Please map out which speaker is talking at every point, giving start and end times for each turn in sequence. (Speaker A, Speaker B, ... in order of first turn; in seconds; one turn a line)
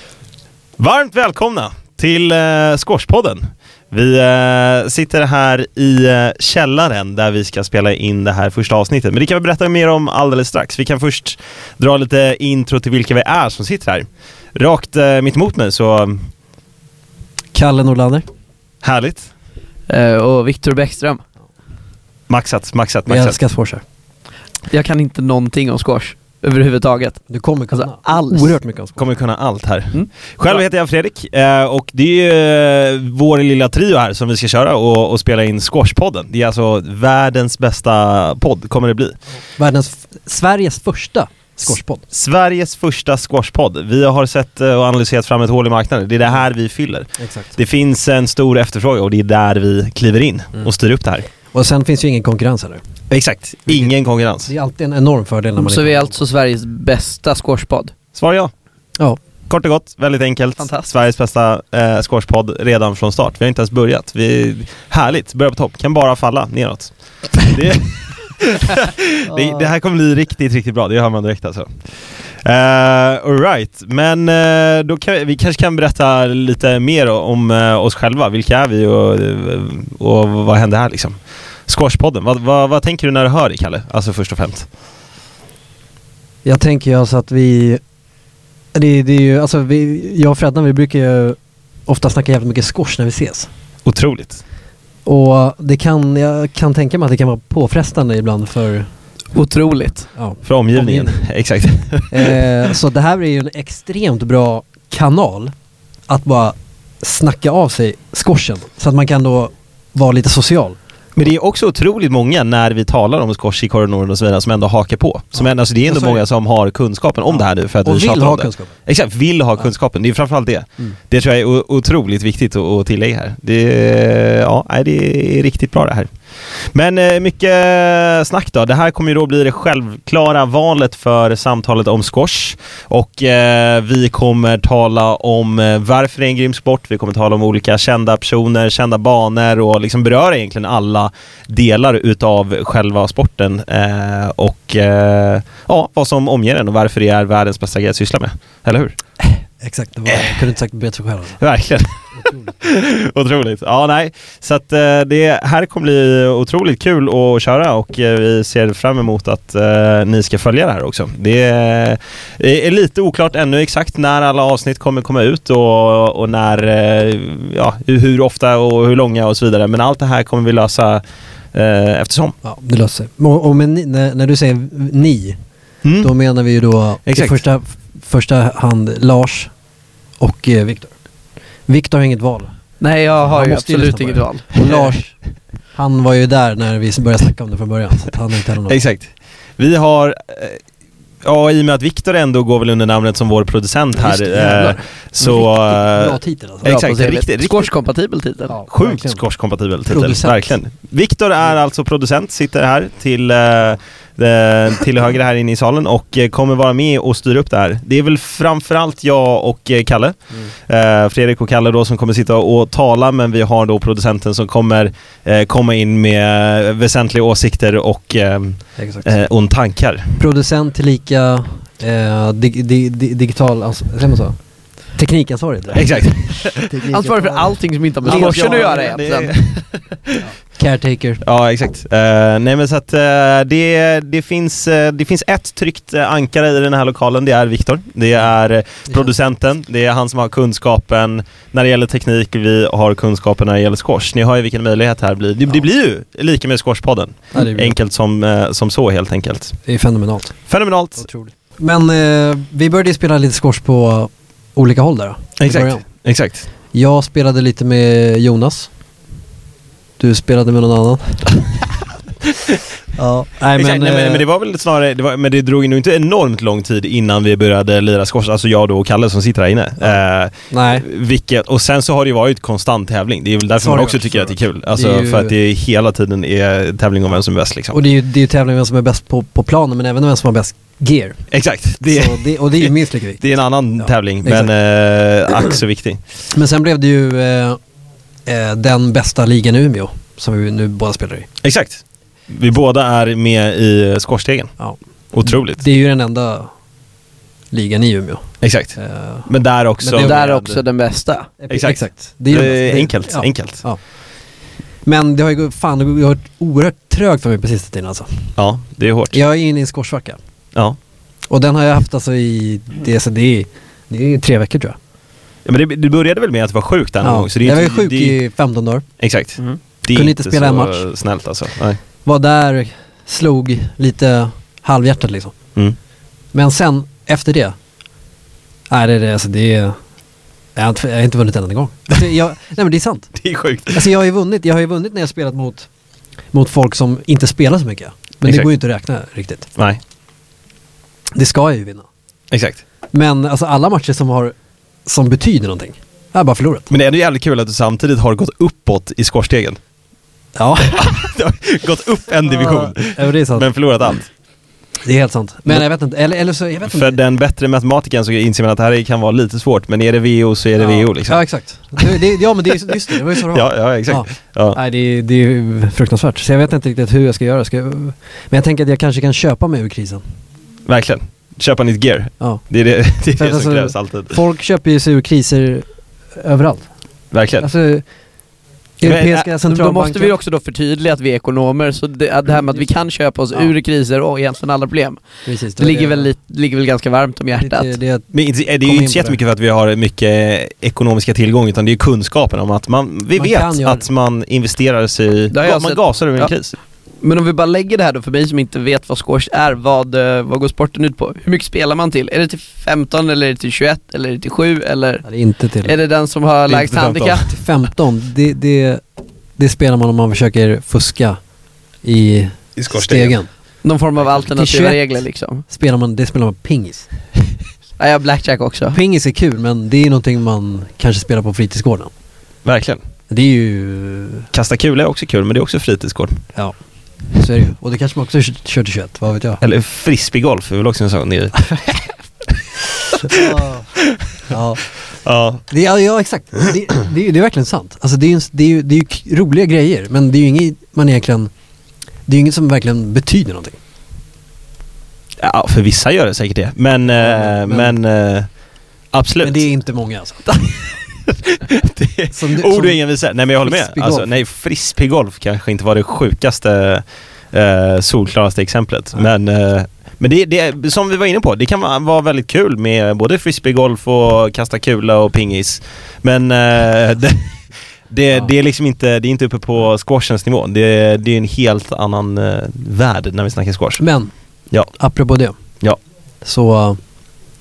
Speaker A: 0.8-16.3
Speaker B: 17.5-18.2
Speaker A: 18.8-19.3
Speaker C: 19.9-21.2
Speaker A: 22.3-23.4
Speaker B: 23.1-23.8
Speaker C: 24.7-28.6
Speaker B: 27.3-29.1
Speaker A: 29.0-39.1
Speaker B: 39.6-42.0
Speaker A: 42.1-51.3
Speaker B: 47.2-47.5
Speaker B: 51.5-52.8
Speaker A: 53.1-54.5
Speaker B: 54.5-56.2
Speaker C: 55.6-57.9
Speaker A: 58.1-58.5
Speaker A: 59.5-71.7
Speaker C: 60.6-60.9
Speaker A: 72.3-84.7
Speaker B: 86.4-87.8
Speaker B: 88.7-93.5
Speaker A: 93.8-94.4
Speaker B: 95.0-98.9
Speaker C: 99.3-100.1
Speaker B: 100.2-101.2
Speaker A: 100.4-102.7
Speaker B: 102.1-105.5
Speaker B: 106.1-110.8
Speaker A: 111.1-149.0
Speaker B: 115.4-116.2
Speaker B: 117.8-118.7
Speaker B: 149.6-151.4
Speaker A: 150.1-150.5
Speaker A: 151.4-152.0
Speaker B: 152.2-152.5
Speaker A: 152.6-172.3
Speaker B: 172.4-175.4
Speaker A: 175.8-176.1
Speaker B: 176.0-179.5
Speaker A: 177.1-177.4
Speaker B: 180.2-180.9
Speaker B: 181.7-182.5
Speaker C: 182.8-184.9
Speaker B: 183.2-185.1
Speaker B: 185.7-188.8
Speaker A: 188.6-190.6
Speaker A: 191.2-197.7
Speaker B: 194.0-196.8
Speaker C: 196.6-198.6
Speaker B: 198.5-199.2
Speaker A: 198.7-220.2
Speaker B: 199.9-200.5
Speaker B: 218.8-219.1
Speaker B: 220.2-224.3
Speaker B: 224.9-228.9
Speaker A: 225.7-226.8
Speaker C: 226.8-229.3
Speaker A: 228.0-230.2
Speaker B: 230.2-231.2
Speaker A: 231.2-249.6
Speaker B: 247.3-247.7
Speaker B: 249.7-250.4
Speaker A: 250.5-251.0
Speaker B: 251.0-255.8
Speaker A: 255.4-256.5
Speaker B: 256.7-258.7
Speaker B: 260.0-261.4
Speaker B: 262.9-264.2
Speaker A: 263.5-277.8
Speaker B: 270.5-270.9
Speaker B: 273.6-275.3
Speaker B: 277.7-281.2
Speaker A: 281.3-286.0
Speaker B: 281.8-283.2
Speaker B: 283.8-284.5
Speaker B: 286.3-287.6
Speaker B: 288.2-291.3
Speaker A: 291.4-294.5
Speaker B: 294.6-296.5
Speaker A: 295.1-295.6
Speaker B: 297.5-298.2
Speaker A: 298.4-300.6
Speaker B: 298.8-299.3
Speaker B: 299.8-300.5
Speaker C: 299.9-301.3
Speaker B: 301.4-303.8
Speaker A: 301.5-303.6
Speaker B: 304.8-308.1
Speaker A: 308.4-309.2
Speaker B: 309.1-310.2
Speaker B: 311.3-314.8
Speaker A: 315.4-318.2
Speaker B: 317.0-318.8
Speaker A: 319.0-321.8
Speaker B: 319.9-320.8
Speaker B: 322.0-325.3
Speaker B: 326.3-327.6
Speaker B: 328.7-329.8
Speaker B: 330.6-333.1
Speaker A: 333.1-333.9
Speaker B: 333.7-335.7
Speaker B: 336.3-339.5
Speaker B: 341.1-341.9
Speaker A: 342.3-342.6
Speaker B: 342.9-344.3
Speaker B: 344.9-346.7
Speaker A: 346.7-349.6
Speaker B: 350.4-351.0
Speaker A: 350.7-354.1
Speaker B: 352.2-353.5
Speaker B: 354.8-356.9
Speaker A: 356.6-361.2
Speaker B: 360.6-370.0
Speaker A: 361.8-362.1
Speaker A: 362.7-364.6
Speaker A: 370.6-374.2
Speaker B: 373.2-376.7
Speaker A: 377.1-377.5
Speaker B: 377.4-377.8
Speaker B: 378.8-380.1
Speaker A: 378.8-379.2
Speaker C: 379.4-385.0
Speaker B: 385.2-386.1
Speaker C: 385.6-387.7
Speaker B: 387.4-388.0
Speaker A: 388.1-396.5
Speaker B: 388.6-389.2
Speaker B: 393.1-393.9
Speaker C: 395.3-396.3
Speaker C: 397.0-405.0
Speaker B: 405.0-405.7
Speaker C: 405.6-407.3
Speaker A: 406.5-407.2
Speaker B: 407.2-408.8
Speaker B: 409.4-411.2
Speaker B: 411.8-413.3
Speaker A: 412.6-413.1
Speaker C: 413.6-415.4
Speaker B: 414.1-414.8
Speaker B: 415.5-416.9
Speaker C: 417.8-418.8
Speaker B: 418.7-421.9
Speaker A: 422.4-422.8
Speaker B: 423.1-424.3
Speaker A: 424.3-426.2
Speaker B: 427.1-429.4
Speaker A: 429.4-434.0
Speaker B: 432.9-433.7
Speaker B: 434.3-434.6
Speaker A: 435.0-435.4
Speaker B: 435.5-441.3
Speaker B: 442.1-443.6
Speaker A: 445.2-448.3
Speaker B: 446.9-447.7
Speaker A: 448.9-449.4
Speaker B: 449.2-450.5
Speaker A: 451.1-467.4
Speaker B: 452.1-452.8
Speaker B: 453.4-454.1
Speaker A: 467.9-473.8
Speaker B: 473.8-474.1
Speaker B: 474.7-475.4
Speaker B: 476.2-476.8